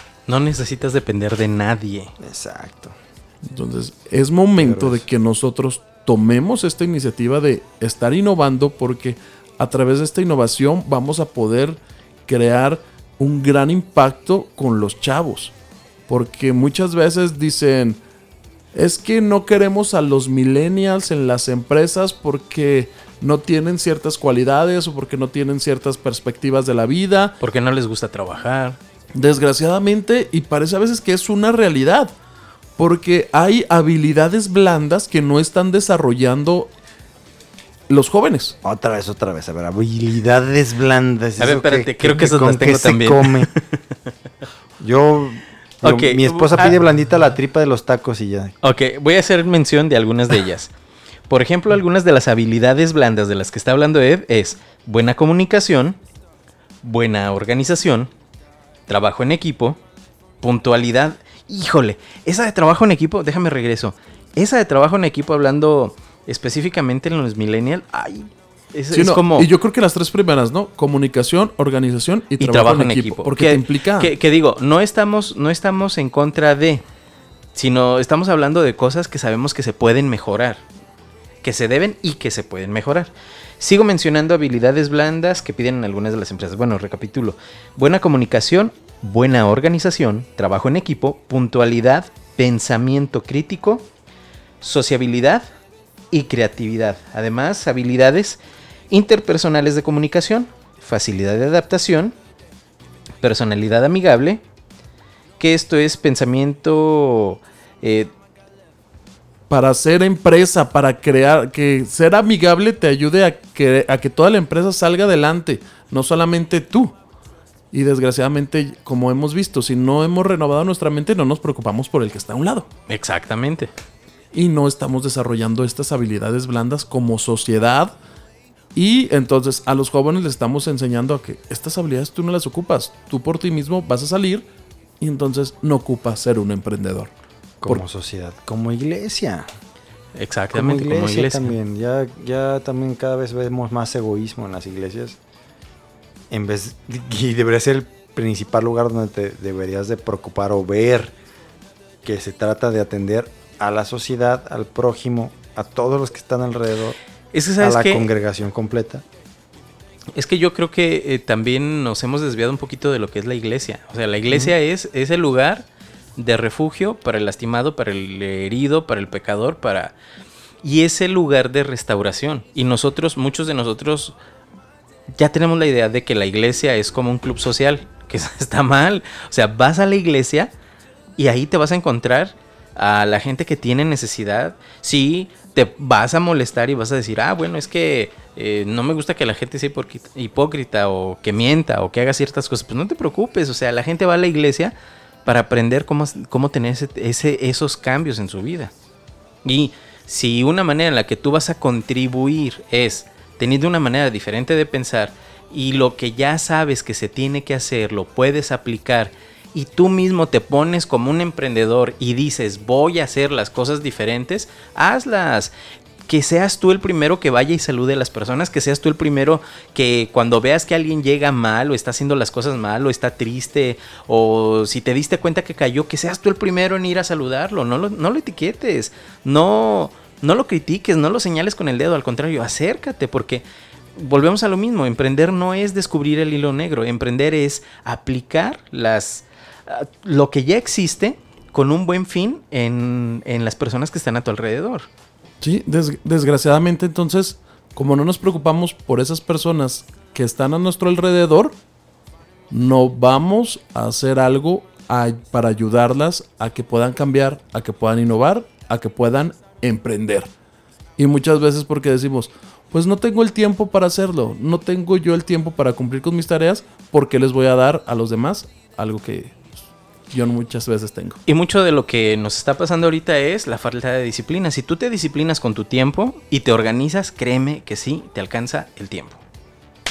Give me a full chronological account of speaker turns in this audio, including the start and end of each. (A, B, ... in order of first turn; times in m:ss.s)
0:00.3-0:02.1 A
0:02.2-0:03.0 B
0:03.4-0:15.5 C
0:04.6-0:05.1 B
0:16.1-0:18.0 C
0:18.7-0:27.4 C
0:27.4-0:28.8 A
0:29.1-0:32.1 C
0:32.8-0:36.7 C
0:37.9-0:38.6 C
0:38.6-0:43.5 B
0:41.4-0:43.6 A
0:44.8-0:48.6 B
0:45.8-0:46.8 A
0:48.6-0:50.7 A
0:51.3-0:56.0 A
0:56.8-0:58.1 A
0:58.9-0:59.8 A
1:00.4-1:09.5 A
1:08.9-1:14.1 C
1:12.4-1:16.8 A
1:17.6-1:20.6 A
1:21.4-1:33.9 A
1:34.6-1:35.5 A
1:36.1-1:38.4 A
1:38.9-1:42.1 A
1:43.2-1:44.4 A
1:45.4-1:48.1 A
1:49.5-1:56.9 C
1:57.7-2:02.7 C
2:02.9-2:03.7 A
2:04.3-2:07.9 C
2:08.8-2:14.5 C
2:15.0-2:17.1 C
2:17.6-2:19.5 B
2:20.2-2:21.5 A
2:20.5-2:25.2 B
2:26.3-2:31.1 B
2:32.0-2:37.0 B
2:37.3-2:38.0 A
2:37.6-2:39.0 B
2:40.1-2:45.6 A
2:46.2-2:49.9 A
2:50.6-2:54.2 A
2:55.1-3:00.5 A
3:01.2-3:14.7 A
3:15.2-3:18.7 A
3:19.4-3:35.5 A
3:36.1-3:53.4 A
3:54.0-4:04.9 A
4:05.4-4:11.6 C
4:12.5-4:20.3 C
4:21.0-4:29.5 C
4:30.1-4:31.2 C
4:31.3-4:39.2 A